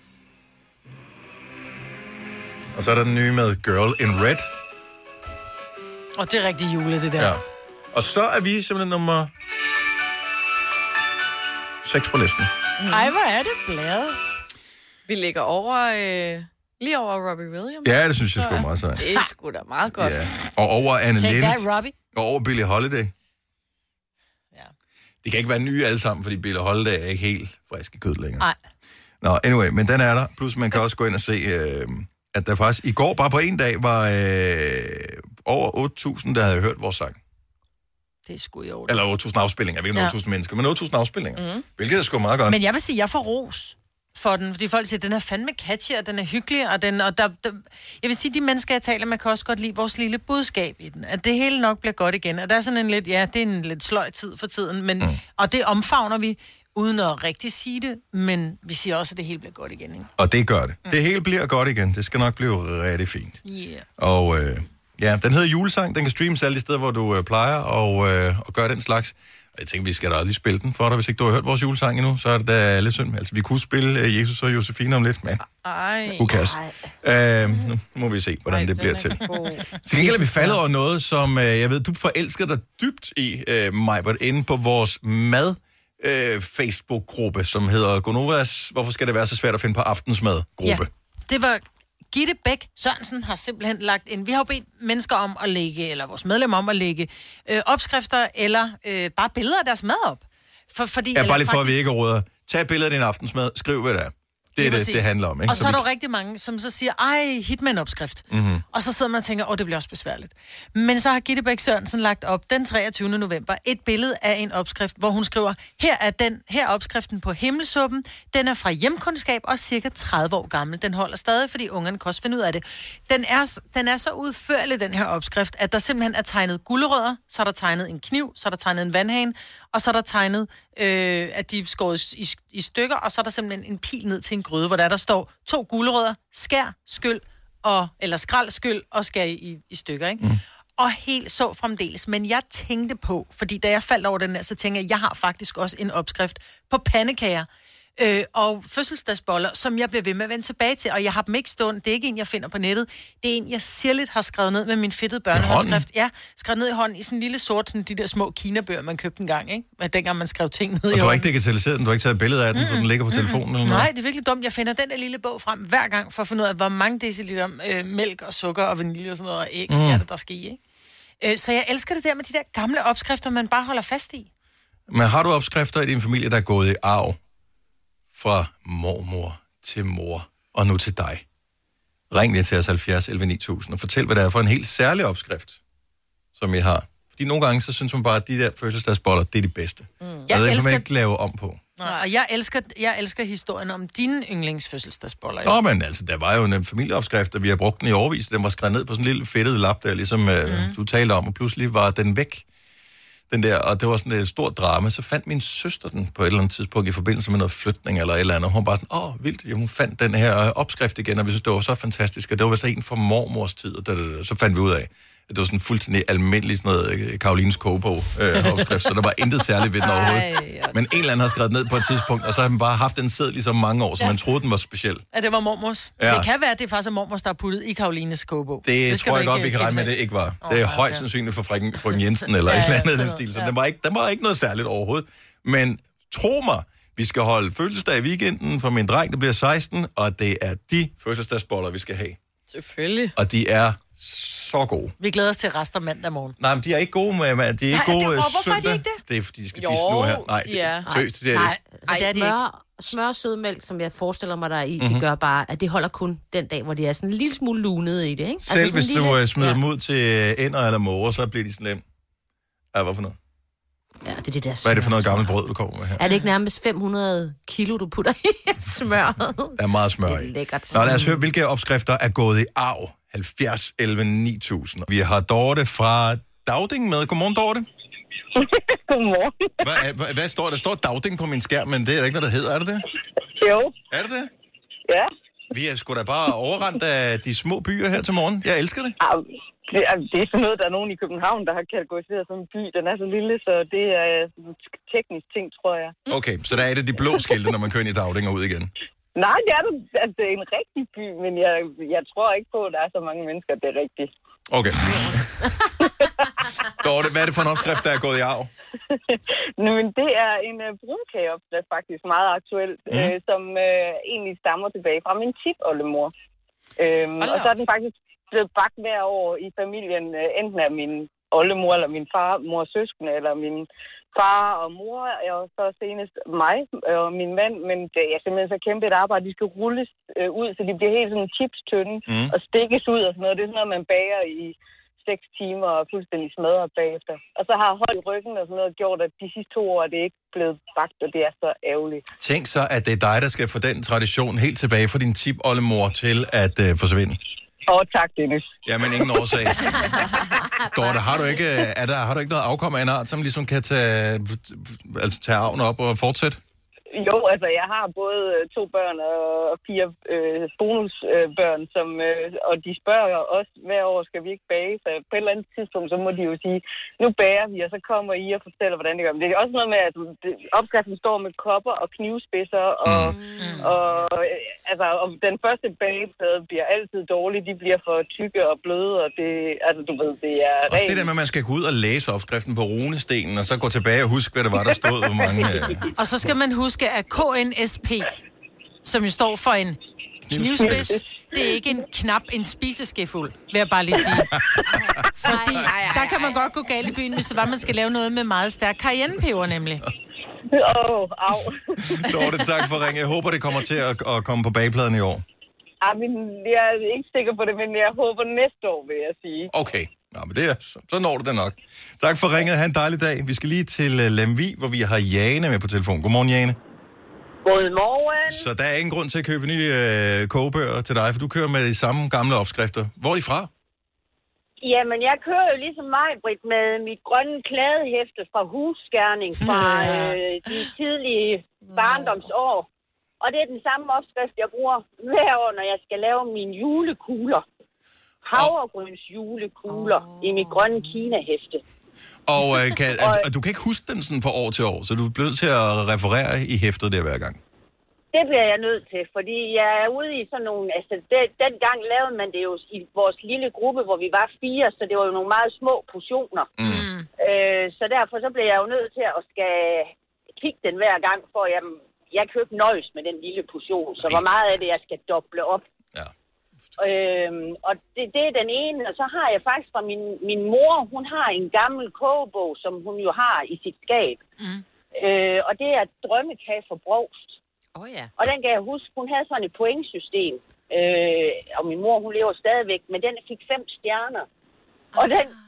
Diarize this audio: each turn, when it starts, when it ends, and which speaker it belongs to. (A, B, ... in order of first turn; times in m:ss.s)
0:02.7-0:04.5 A
0:06.2-0:07.3 B
0:07.2-0:09.3 A
0:11.8-0:12.5 A
0:12.8-0:13.1 C
0:12.9-0:14.2 B
0:15.1-0:20.3 C
0:17.8-0:19.1 A
0:19.9-0:23.1 A
0:21.2-0:22.0 B
0:25.2-0:28.5 A
0:29.2-0:37.2 A
0:38.3-0:39.0 B
0:38.9-0:42.6 A
0:41.4-0:41.6 C
0:42.5-1:00.1 B
1:00.2-1:03.4 A
1:03.4-1:03.9 B
1:04.0-1:15.4 A
1:15.4-1:16.4 C
1:16.2-1:30.9 A
1:16.3-1:16.7 D
1:18.5-1:20.0 C
1:30.6-1:41.8 B
1:41.1-1:45.8 A
1:44.6-2:20.2 B
1:48.3-1:48.6 A
2:20.8-2:41.3 B
2:35.3-2:35.8 A
2:40.9-2:43.9 A
2:42.5-2:50.6 B
2:49.7-2:50.0 A
2:51.2-2:54.3 B
2:54.9-2:57.2 A
2:58.1-3:01.2 A
3:02.1-3:05.6 A
3:06.4-3:11.6 A
3:10.0-3:10.3 C
3:10.3-3:10.9 B
3:11.8-3:15.6 B
3:15.4-3:22.4 A
3:20.5-3:20.8 B
3:23.3-3:45.0 A
3:39.9-3:40.8 C
3:45.1-3:51.0 B
3:46.0-3:46.3 A
3:48.6-4:02.2 A
3:52.5-3:53.2 B
3:52.5-3:53.5 C
4:02.5-4:03.1 C
4:03.2-4:04.9 A
4:05.0-4:06.4 B
4:06.4-4:11.5 A
4:07.7-4:09.0 B
4:09.6-4:10.9 C
4:10.9-4:19.6 D
4:11.3-4:12.4 B
4:14.8-4:15.0 A
4:18.4-4:21.8 A
4:22.7-4:23.2 A
4:24.0-4:25.3 D
4:24.6-4:26.0 A
4:26.0-4:31.2 D
4:29.6-4:37.7 A
4:38.4-4:39.7 E
4:39.6-4:42.8 A
4:43.4-4:43.7 E
4:43.9-4:44.3 A
4:45.5-4:49.0 A
4:49.0-4:56.0 E
4:56.1-4:58.7 A
4:59.2-5:04.1 E
5:04.5-5:05.4 A
5:06.7-5:08.5 A
5:09.0-5:16.1 E
5:12.9-5:13.1 A
5:16.8-5:42.1 E
5:17.2-5:17.6 C
5:32.1-5:32.3 A
5:42.2-5:47.2 A
5:47.7-5:48.6 E
5:48.6-5:50.0 A
5:49.9-5:50.9 D
5:50.7-5:56.4 A
5:56.9-6:21.1 E
6:12.8-6:13.2 A
6:13.4-6:13.7 B
6:20.7-6:25.8 A
6:26.0-6:28.1 B
6:28.8-6:29.8 B
6:30.3-6:31.0 A
6:30.3-6:34.4 B
6:34.3-6:35.0 A
6:34.7-6:36.3 D
6:35.2-6:39.8 B
6:35.6-6:36.3 C
6:40.6-6:41.4 E
6:41.8-6:45.2 A
6:45.8-6:49.5 E
6:49.5-6:56.6 A
6:57.4-6:58.3 F
6:58.2-7:03.5 A
7:04.6-7:12.7 F
7:09.4-7:10.6 B
7:11.6-7:12.2 C
7:13.2-7:17.4 F
7:18.2-7:21.6 F
7:19.8-7:20.8 D
7:22.3-7:27.4 A
7:23.0-7:23.3 F
7:28.1-7:36.5 F
7:36.6-7:36.9 A
7:36.6-7:37.1 B
7:37.2-7:45.6 F
7:44.0-7:44.3 A
7:46.8-7:54.2 F
7:54.9-7:57.4 F
7:57.8-7:58.1 D
7:58.2-8:04.3 F
8:05.0-8:05.3 D
8:05.0-8:05.3 F